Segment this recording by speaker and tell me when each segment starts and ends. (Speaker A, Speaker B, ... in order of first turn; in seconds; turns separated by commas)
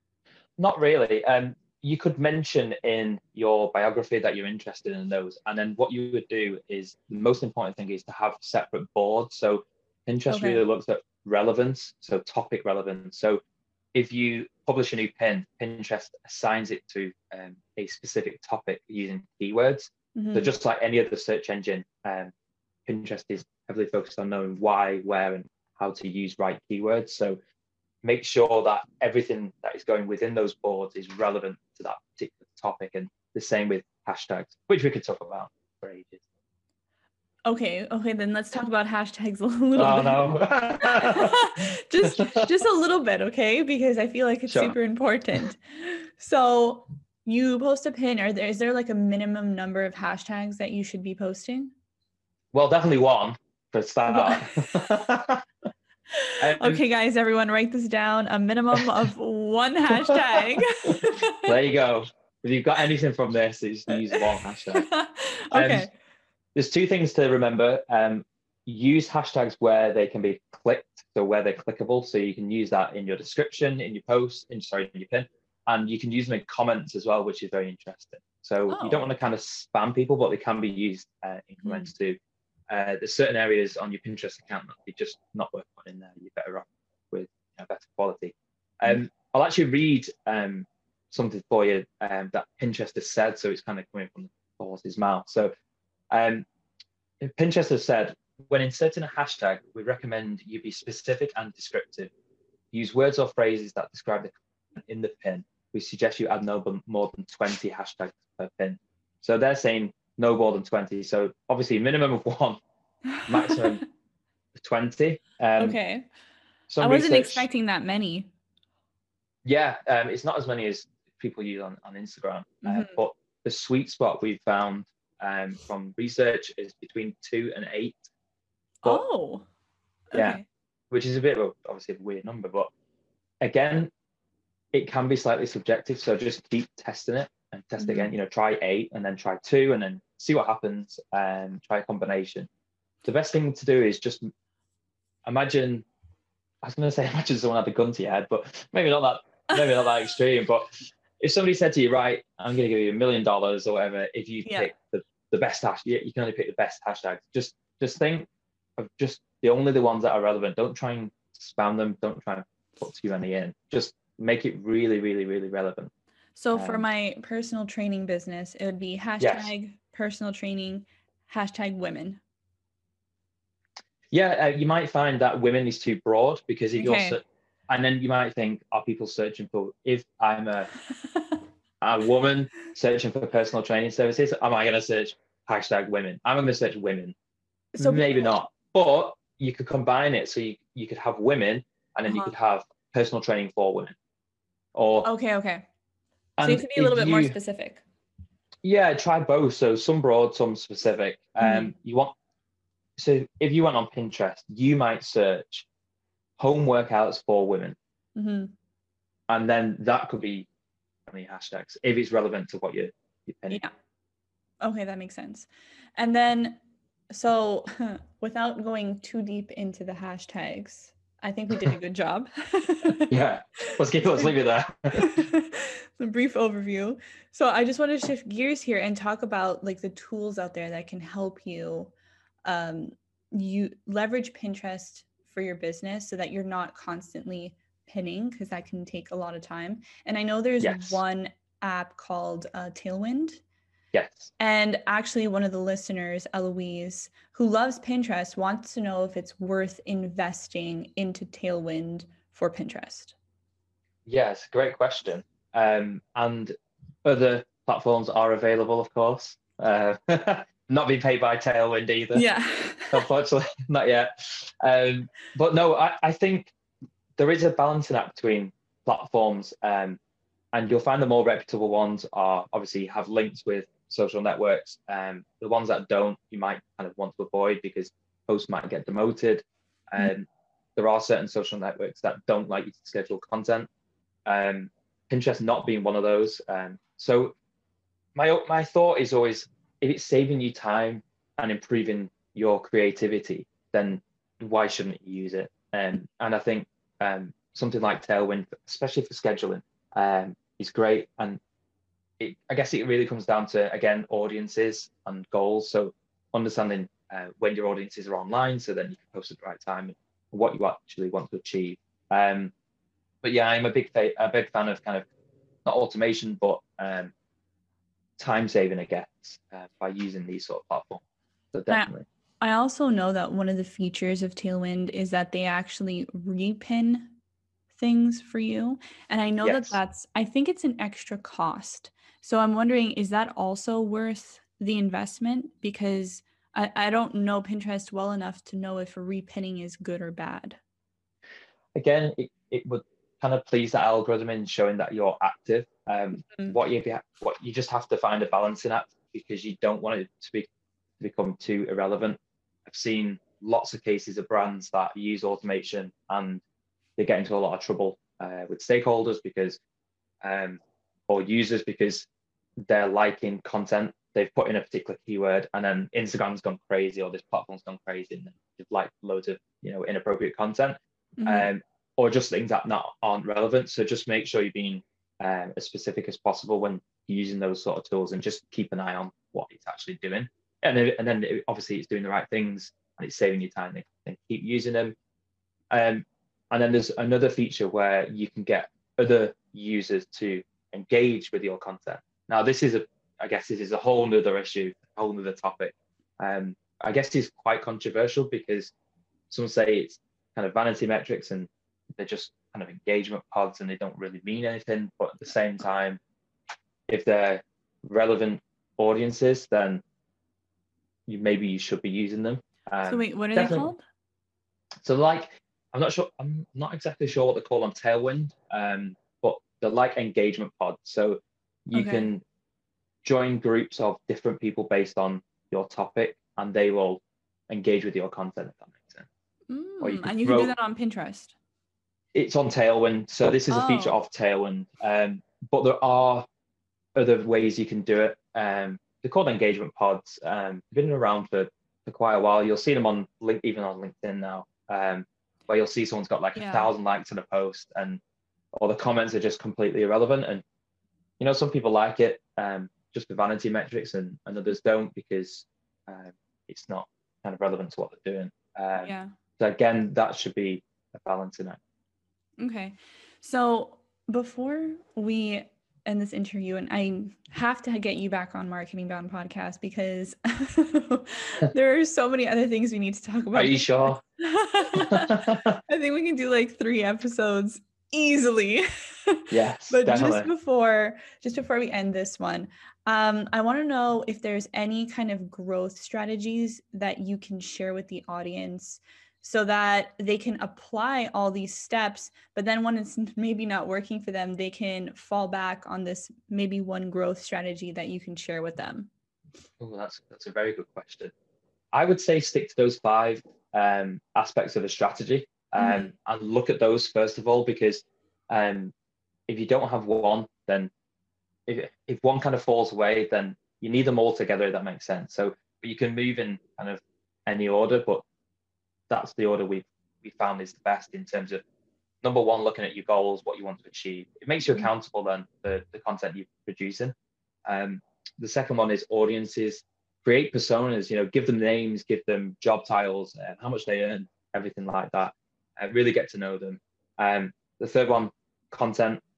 Speaker A: 0.6-13.4, Speaker B: 10.3-10.6, Speaker A: 13.9-22.3, Speaker B: 20.1-20.5, Speaker A: 22.9-27.4, Speaker A: 28.0-36.2, Speaker B: 37.5-51.7, Speaker A: 39.8-42.5, Speaker A: 44.5-44.8, Speaker A: 52.5-55.5, Speaker B: 54.1-54.8, Speaker B: 56.1-61.5, Speaker A: 56.4-56.8, Speaker A: 60.0-64.9, Speaker B: 63.9-65.9, Speaker A: 65.5-65.9, Speaker A: 66.5-82.2, Speaker B: 78.7-79.0, Speaker B: 81.6-81.9, Speaker A: 82.7-95.5, Speaker A: 96.1-96.5, Speaker A: 97.2-102.1, Speaker A: 102.7-112.6, Speaker A: 113.2-113.8, Speaker A: 114.5-115.8, Speaker B: 115.6-116.1, Speaker A: 116.7-117.5, Speaker B: 116.8-118.3, Speaker A: 119.4-128.1, Speaker B: 122.6-123.0, Speaker B: 128.8-129.5, Speaker B: 130.1-130.4, Speaker A: 130.1-130.4, Speaker A: 130.9-132.7, Speaker A: 133.4-133.9, Speaker A: 134.7-142.5, Speaker B: 137.8-138.1, Speaker A: 143.0-144.3, Speaker A: 145.2-145.8, Speaker A: 146.6-165.9, Speaker B: 166.3-172.2, Speaker A: 166.5-166.8, Speaker A: 169.2-169.5, Speaker A: 174.1-180.7, Speaker B: 176.8-177.2, Speaker A: 181.8-187.2, Speaker B: 187.7-188.3, Speaker A: 187.8-193.9, Speaker A: 194.7-195.1, Speaker B: 195.0-195.6, Speaker A: 196.4-197.3, Speaker B: 196.4-197.8, Speaker A: 198.6-202.1, Speaker B: 201.4-201.7, Speaker A: 203.0-205.7, Speaker A: 206.4-207.8, Speaker B: 208.2-208.5, Speaker A: 209.3-210.5, Speaker A: 211.1-213.6, Speaker B: 214.6-216.6, Speaker B: 217.1-223.1, Speaker A: 223.1-225.2, Speaker B: 224.9-231.9, Speaker B: 232.4-243.4, Speaker A: 240.6-241.0, Speaker A: 243.9-244.3, Speaker B: 244.4-253.1, Speaker A: 254.1-262.2, Speaker B: 262.1-263.1, Speaker A: 262.9-266.5, Speaker A: 267.2-270.0, Speaker A: 270.5-283.7, Speaker A: 284.2-287.3, Speaker A: 288.1-301.4, Speaker A: 302.2-312.5, Speaker A: 313.2-315.1, Speaker A: 315.6-317.1, Speaker A: 318.2-322.1, Speaker B: 322.4-327.1, Speaker B: 327.7-340.6, Speaker A: 329.4-329.8, Speaker A: 341.7-356.4, Speaker A: 357.0-359.6, Speaker A: 360.2-362.1, Speaker A: 362.6-384.9, Speaker B: 371.2-371.5, Speaker A: 385.7-398.7, Speaker A: 399.3-406.0, Speaker A: 406.9-409.8, Speaker A: 411.1-413.7, Speaker B: 412.9-413.8, Speaker A: 414.8-422.2, Speaker B: 421.7-422.1, Speaker A: 423.0-429.1, Speaker B: 429.5-431.3, Speaker A: 429.8-430.5, Speaker A: 432.1-436.3, Speaker B: 433.5-434.0, Speaker A: 436.9-448.0, Speaker B: 446.3-446.7, Speaker A: 448.5-450.4, Speaker A: 451.2-461.6, Speaker B: 458.8-459.1, Speaker B: 462.4-498.9, Speaker A: 473.3-474.0, Speaker A: 474.7-475.6, Speaker A: 479.3-480.3, Speaker A: 499.6-501.1, Speaker A: 501.7-508.7, Speaker B: 505.6-505.9, Speaker A: 509.3-510.7, Speaker A: 511.5-518.0, Speaker A: 518.9-521.4, Speaker A: 522.0-526.9, Speaker A: 527.5-539.0